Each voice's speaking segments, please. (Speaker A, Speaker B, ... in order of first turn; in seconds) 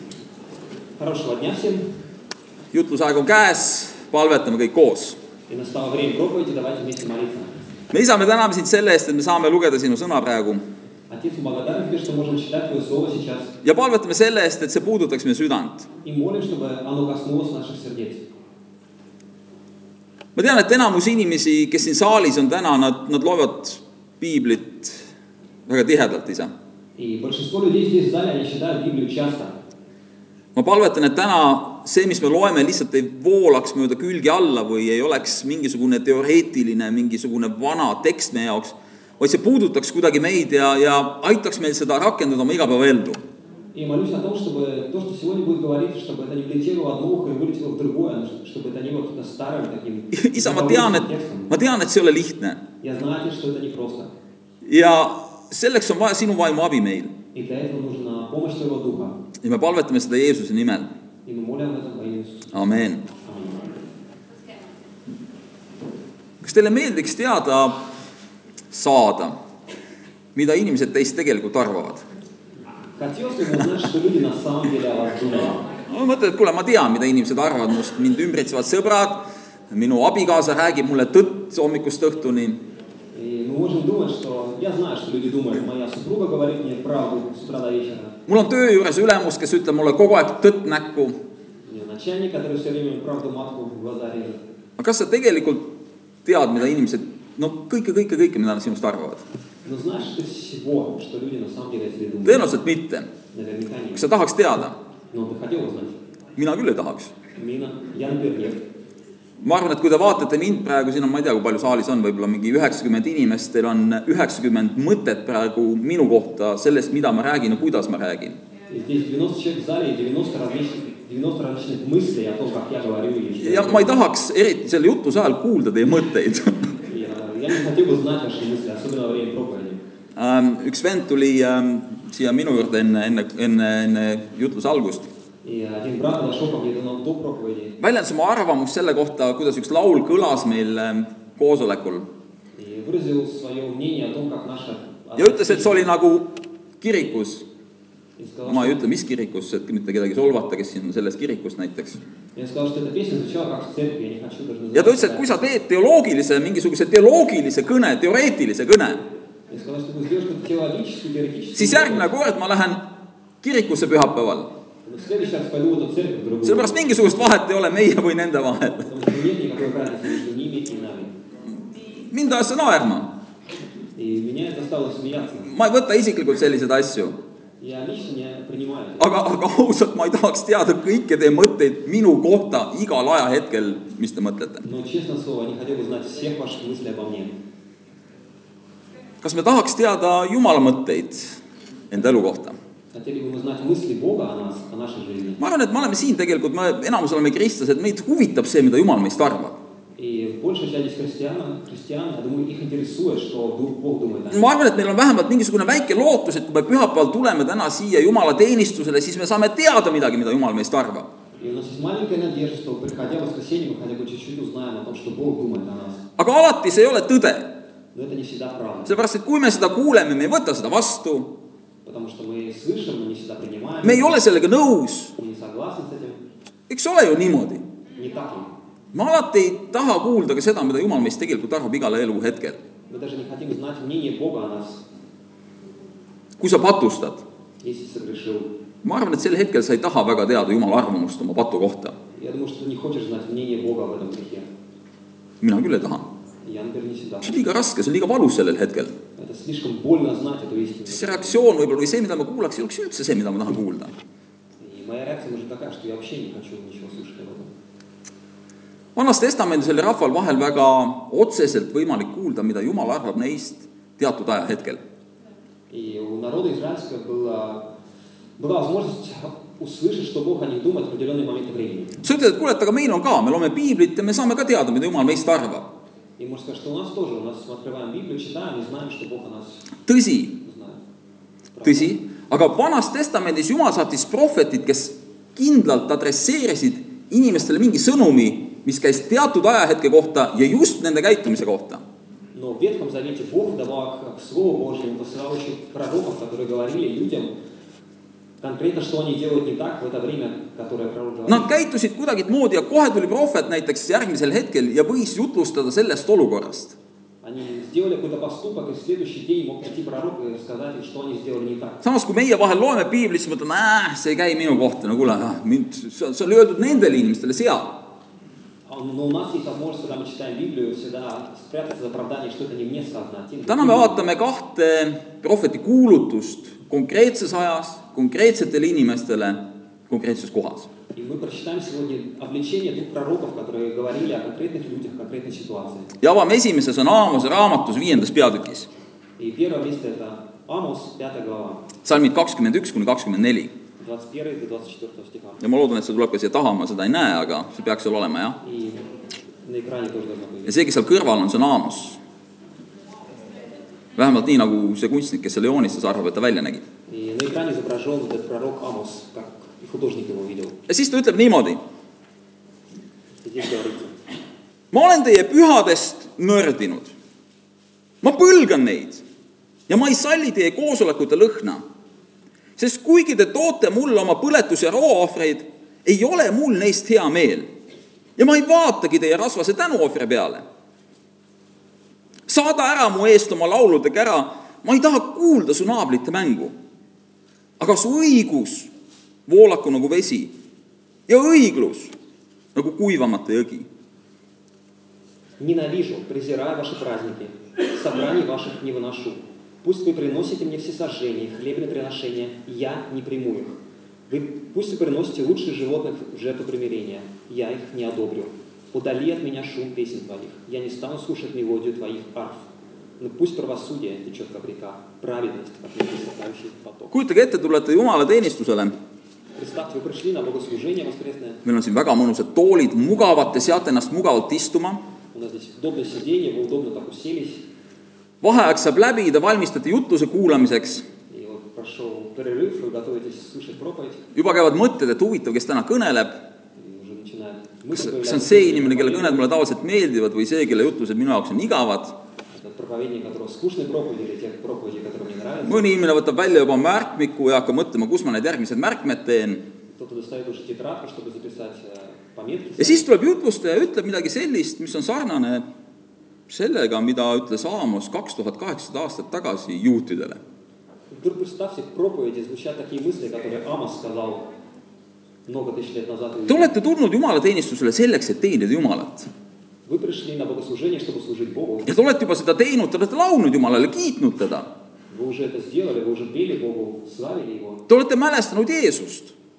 Speaker A: 1.0-1.9, 5.5-7.6, 11.1-13.6, 16.0-18.2, 27.0-29.6, 43.7-51.5, 52.8-54.1, 57.3-59.2, 61.2-63.8, 73.0-75.7, 83.1-88.2, 91.7-94.4, 99.6-102.6, 103.3-104.1, 105.1-106.0, 107.3-108.6, 118.7-124.0, 126.8-129.8, 135.4-137.8, 142.6-145.9, 148.2-148.9, 152.3-155.5, 159.5-162.1, 164.8-167.2, 168.9-171.1, 173.9-175.5, 177.6-179.1, 184.6-187.3, 192.9-195.4, 200.0-204.5, 211.4-216.0, 217.9-219.0, 221.8-224.2, 225.2-226.2, 227.9-228.5, 232.9-234.8, 237.6-238.5, 242.1-244.4, 246.4-247.4, 249.2-251.4, 254.6-257.5, 265.7-267.6, 268.4-272.0, 276.2-279.6, 280.4-280.8, 281.6-281.9, 292.3-297.3, 298.4-301.5, 307.2-311.8, 318.7-324.1, 330.9-335.9, 339.2-341.7, 343.8-345.4, 348.4-348.9, 349.4-350.6, 356.9-360.6, 363.2-364.0, 395.4-403.6, 404.1-412.4, 413.0-416.9, 419.4-421.4, 425.1-427.4, 431.1-434.0, 436.6-439.3, 442.3-445.8, 449.7-452.9, 460.9-464.3, 465.3-466.6, 469.6-471.7, 474.9-477.6
Speaker B: 2.7-5.2, 7.9-10.6, 13.6-15.9, 20.3-25.1, 25.7-26.5, 30.5-43.2, 50.1-52.6, 54.6-57.1, 59.4-60.9, 62.5-63.0, 66.4-67.8, 68.7-69.3, 70.3-72.0, 75.8-82.6, 88.3-91.2, 94.8-95.7, 96.2-99.2, 102.2-103.1, 103.9-104.8, 106.3-107.1, 109.4-118.4, 123.4-126.8, 130.2-135.1, 137.8-142.1, 145.2-147.4, 148.4-152.0, 154.7-159.0, 161.5-162.9, 163.4-164.5, 166.4-169.0, 172.0-173.1, 175.4-177.2, 179.0-184.6, 189.2-192.6, 195.4-199.6, 204.3-211.1, 216.2-217.5, 218.8-221.3, 223.8-225.1, 226.7-227.6, 228.9-232.6, 236.4-237.2, 238.8-241.9, 245.4-246.1, 247.2-248.9, 250.9-253.9, 258.9-264.8, 272.0-275.7, 279.8-280.4, 281.6-291.8, 301.3-306.8, 311.8-317.8, 323.5-330.7, 336.0-338.7, 341.8-343.5, 345.4-348.4, 350.4-352.0, 353.9-356.6, 360.7-361.6, 364.7-366.9, 368.0-369.0, 369.7-371.6, 372.6-377.5, 378.2-380.4, 382.3-386.5, 387.6-388.7, 389.2-390.3, 391.1-391.9, 392.5-393.7, 416.9-418.7, 421.4-424.8, 428.2-430.9, 434.1-436.2, 437.7-442.0, 445.4-449.4, 452.6-455.4, 456.3-460.2, 466.3-469.1, 471.7-474.5, 477.7-479.1